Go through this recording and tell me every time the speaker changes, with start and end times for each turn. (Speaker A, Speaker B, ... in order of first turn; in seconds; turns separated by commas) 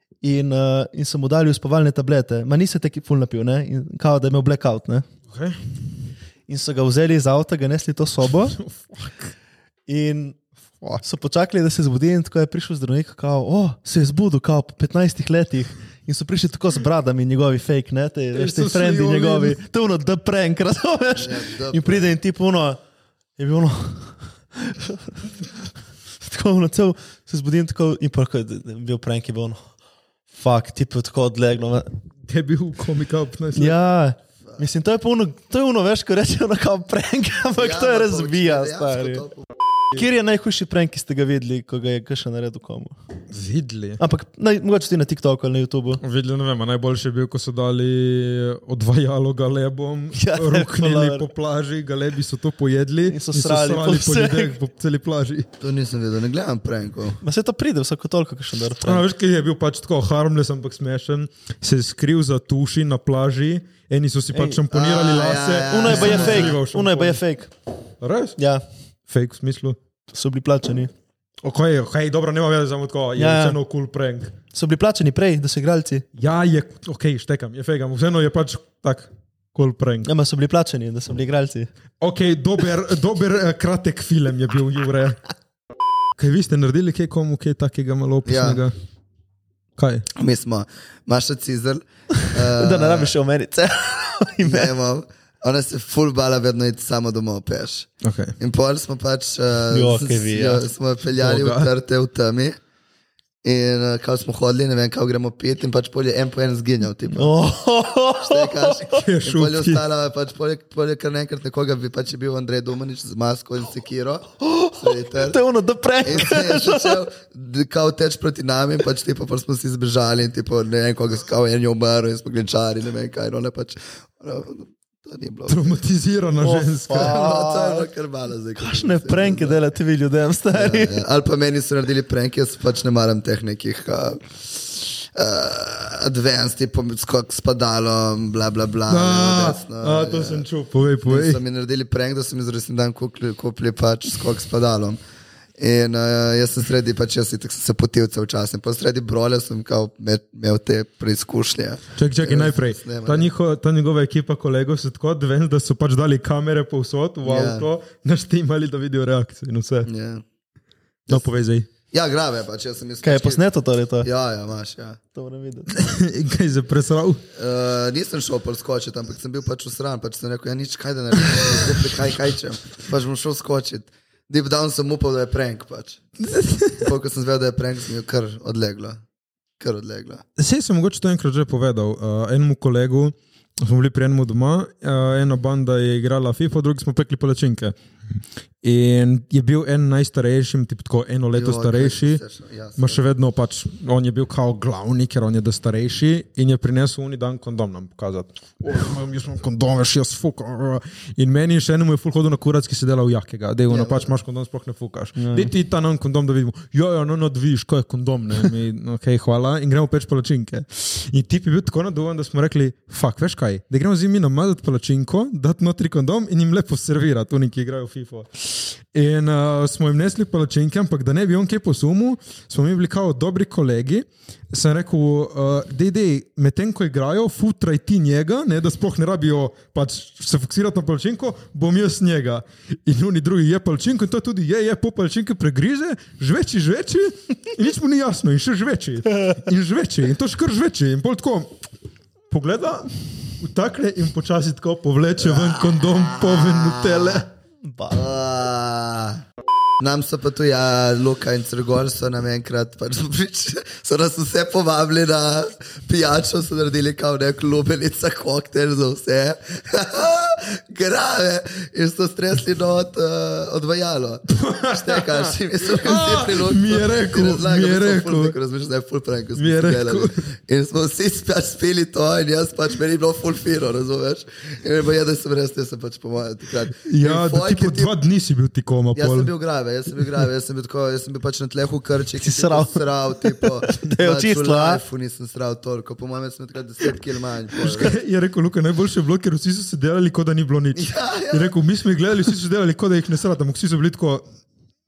Speaker A: 0.2-5.0, Speaker B: 5.3-5.6, Speaker A: 6.5-8.6, Speaker B: 8.5-9.3, Speaker A: 9.9-10.4, Speaker A: 11.0-22.8, Speaker B: 18.3-19.6, Speaker C: 21.1-22.1, Speaker A: 23.4-25.3, Speaker A: 26.2-29.6, Speaker A: 30.3-31.9, Speaker B: 32.3-33.8, Speaker A: 33.5-39.2, Speaker C: 37.5-39.5, Speaker A: 39.9-42.9, Speaker B: 43.3-44.0, Speaker A: 44.0-46.0, Speaker B: 46.0-55.5, Speaker A: 50.1-51.3, Speaker A: 53.1-54.6, Speaker C: 55.6-57.2, Speaker A: 57.2-59.0, Speaker B: 58.8-67.2, Speaker A: 64.3-64.6, Speaker C: 64.7-66.5, Speaker A: 65.7-67.5, Speaker B: 68.0-68.4, Speaker A: 68.4-68.6, Speaker B: 69.1-69.8, Speaker A: 70.1-70.9, Speaker B: 71.4-74.3, Speaker A: 73.2-73.6, Speaker A: 74.5-76.0, Speaker B: 76.2-80.1, Speaker A: 80.0-81.7, Speaker B: 82.0-85.2, Speaker B: 86.2-88.7, Speaker C: 88.2-88.6, Speaker B: 89.8-90.0, Speaker C: 90.1-93.1, Speaker A: 92.3-94.7, Speaker C: 94.4-97.9, Speaker B: 98.0-98.3, Speaker C: 98.4-102.6, Speaker A: 99.7-100.6, Speaker B: 101.2-101.7, Speaker C: 103.4-107.3, Speaker A: 107.1-109.0, Speaker C: 108.2-115.4, Speaker B: 109.0-109.8, Speaker A: 114.4-117.0, Speaker C: 116.0-125.7, Speaker B: 125.5-127.3, Speaker A: 126.4-127.9, Speaker C: 126.9-129.6, Speaker A: 128.6-131.0, Speaker C: 130.5-140.4, Speaker B: 138.9-141.4, Speaker C: 141.1-145.0, Speaker C: 145.6-153.3, Speaker B: 152.0-159.9, Speaker C: 157.2-157.7, Speaker C: 159.8-160.2, Speaker B: 161.1-161.7, Speaker C: 161.9-163.4, Speaker A: 163.0-164.1, Speaker C: 164.0-165.0, Speaker A: 165.1-165.7, Speaker B: 165.7-167.2, Speaker C: 167.3-176.0, Speaker B: 176.2-176.8, Speaker C: 176.8-179.0, Speaker C: 179.6-180.2, Speaker B: 180.4-187.7, Speaker B: 188.6-192.2, Speaker C: 191.3-193.0, Speaker B: 192.8-241.6, Speaker C: 203.7-204.1, Speaker A: 205.2-205.5, Speaker B: 242.3-247.2, Speaker C: 245.2-247.2, Speaker A: 247.6-248.0, Speaker C: 247.9-249.2, Speaker C: 249.8-277.9, Speaker B: 264.3-268.3, Speaker B: 269.4-270.2, Speaker B: 276.8-279.3, Speaker C: 278.9-287.9, Speaker A: 282.2-284.8, Speaker B: 287.6-294.2, Speaker C: 290.8-291.5